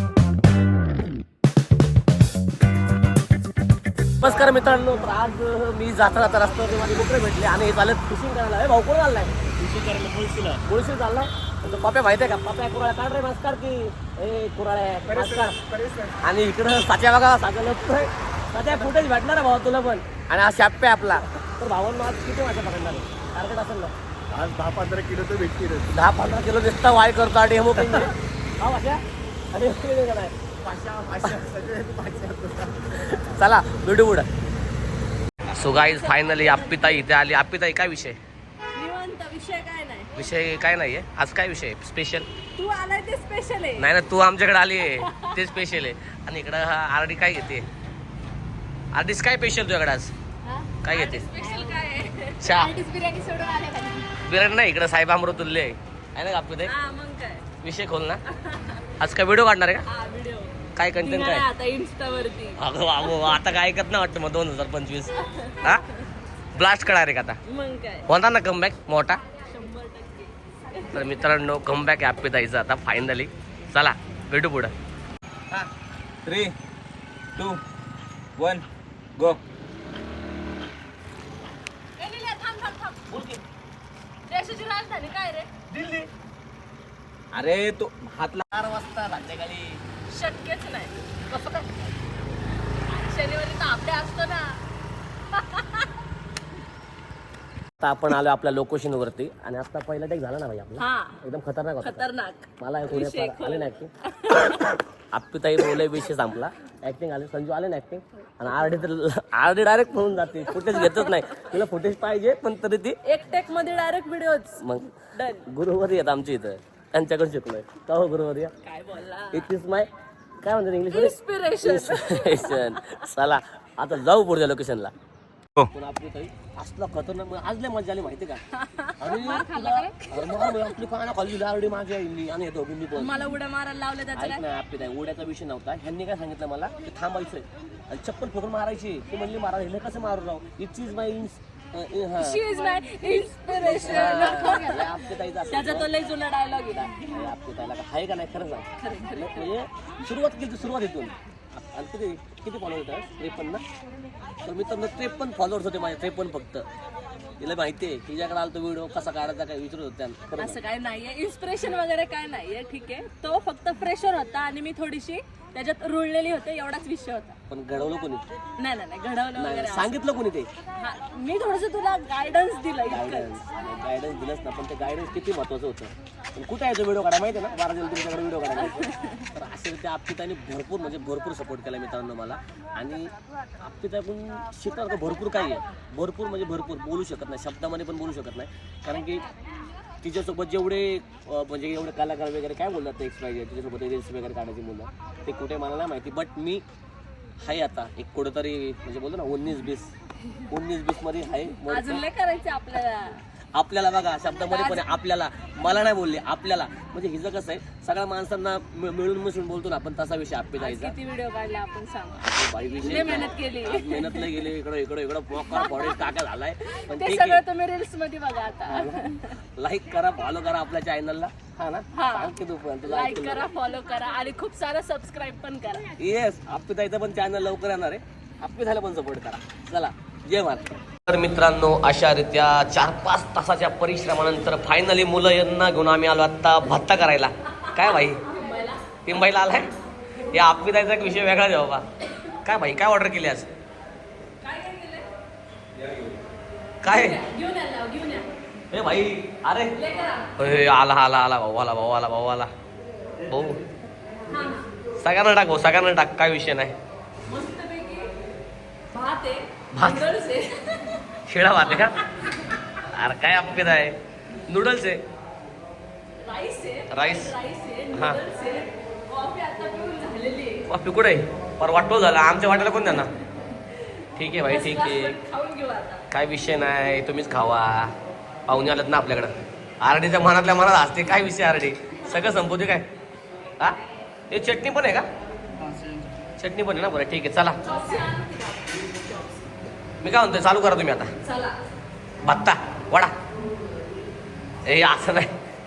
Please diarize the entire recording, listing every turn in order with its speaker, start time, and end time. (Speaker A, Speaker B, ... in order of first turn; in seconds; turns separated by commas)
Speaker A: 4.2-15.6, Speaker B: 15.1-16.2, Speaker A: 16.2-23.9, Speaker B: 24.3-25.9, Speaker A: 25.8-30.3, Speaker B: 30.6-32.7, Speaker A: 31.2-34.3, Speaker A: 35.5-38.2, Speaker C: 35.6-37.0, Speaker C: 38.7-40.1, Speaker A: 40.1-42.3, Speaker C: 42.6-43.9, Speaker A: 43.8-47.7, Speaker C: 45.0-45.4, Speaker A: 48.9-50.1, Speaker C: 50.5-54.0, Speaker A: 50.8-51.3, Speaker A: 52.4-52.8, Speaker A: 54.2-56.7, Speaker C: 56.6-57.5, Speaker A: 57.6-58.2, Speaker C: 58.3-58.8, Speaker A: 59.0-59.9, Speaker C: 59.9-63.3, Speaker A: 60.8-61.5, Speaker A: 62.6-65.8, Speaker C: 65.2-65.8, Speaker A: 66.5-67.4, Speaker C: 67.5-68.1, Speaker A: 68.1-69.2, Speaker C: 69.4-71.2, Speaker A: 70.9-74.7, Speaker A: 76.2-76.5, Speaker A: 78.4-78.6, Speaker C: 82.0-83.0, Speaker A: 83.1-83.4, Speaker C: 84.3-85.5, Speaker A: 85.7-86.1, Speaker A: 87.3-89.8, Speaker C: 90.1-91.0, Speaker A: 91.3-91.7, Speaker C: 92.8-94.6, Speaker C: 95.3-95.9, Speaker A: 97.8-102.1, Speaker C: 100.8-101.2, Speaker C: 101.8-104.8, Speaker A: 102.6-103.9, Speaker A: 105.1-113.0, Speaker C: 110.6-111.1, Speaker C: 113.0-114.6, Speaker A: 114.6-118.5, Speaker C: 115.1-115.4, Speaker C: 118.6-119.5, Speaker A: 119.3-119.9, Speaker A: 120.4-124.9, Speaker C: 120.9-123.1, Speaker A: 125.6-128.4, Speaker C: 128.6-130.7, Speaker A: 129.0-133.2, Speaker C: 132.9-134.4, Speaker A: 134.2-142.4, Speaker C: 142.2-147.1, Speaker A: 143.5-145.9, Speaker A: 146.7-153.6, Speaker C: 148.8-149.5, Speaker A: 154.4-156.7, Speaker A: 157.4-160.6, Speaker C: 160.4-167.4, Speaker A: 167.5-168.2, Speaker C: 168.6-169.9, Speaker A: 169.4-170.5, Speaker C: 170.8-173.4, Speaker A: 172.9-189.2, Speaker C: 178.7-179.3, Speaker A: 190.0-196.6, Speaker A: 197.4-199.9, Speaker A: 200.5-202.1, Speaker C: 201.6-203.2, Speaker A: 203.6-210.9, Speaker C: 204.5-204.9, Speaker C: 210.6-212.2, Speaker A: 212.2-217.4, Speaker C: 212.8-214.5, Speaker C: 215.3-216.1, Speaker C: 216.7-219.4, Speaker A: 218.7-219.0, Speaker A: 219.6-223.4, Speaker C: 221.9-222.3, Speaker C: 222.8-225.9, Speaker A: 226.0-238.2, Speaker C: 237.9-238.9, Speaker A: 239.1-239.7, Speaker A: 240.3-241.8, Speaker A: 242.4-243.5, Speaker C: 244.4-245.1, Speaker A: 246.8-247.2, Speaker C: 246.8-248.3, Speaker A: 248.7-249.8, Speaker C: 249.8-250.3, Speaker A: 250.4-252.5, Speaker A: 253.2-253.6, Speaker C: 254.3-254.7, Speaker A: 255.0-256.8, Speaker C: 257.3-258.1, Speaker C: 258.9-261.0, Speaker A: 259.7-260.1, Speaker A: 261.2-262.0, Speaker A: 262.8-265.0, Speaker C: 266.2-270.6, Speaker A: 266.9-267.4, Speaker A: 267.9-268.2, Speaker A: 270.7-273.1, Speaker A: 274.2-275.2, Speaker C: 274.4-276.0, Speaker A: 276.1-277.9, Speaker A: 278.5-282.9, Speaker A: 284.3-285.1, Speaker A: 286.4-287.6, Speaker C: 287.6-289.5, Speaker A: 290.0-291.1, Speaker C: 291.2-291.6, Speaker A: 292.2-293.1, Speaker A: 294.6-295.3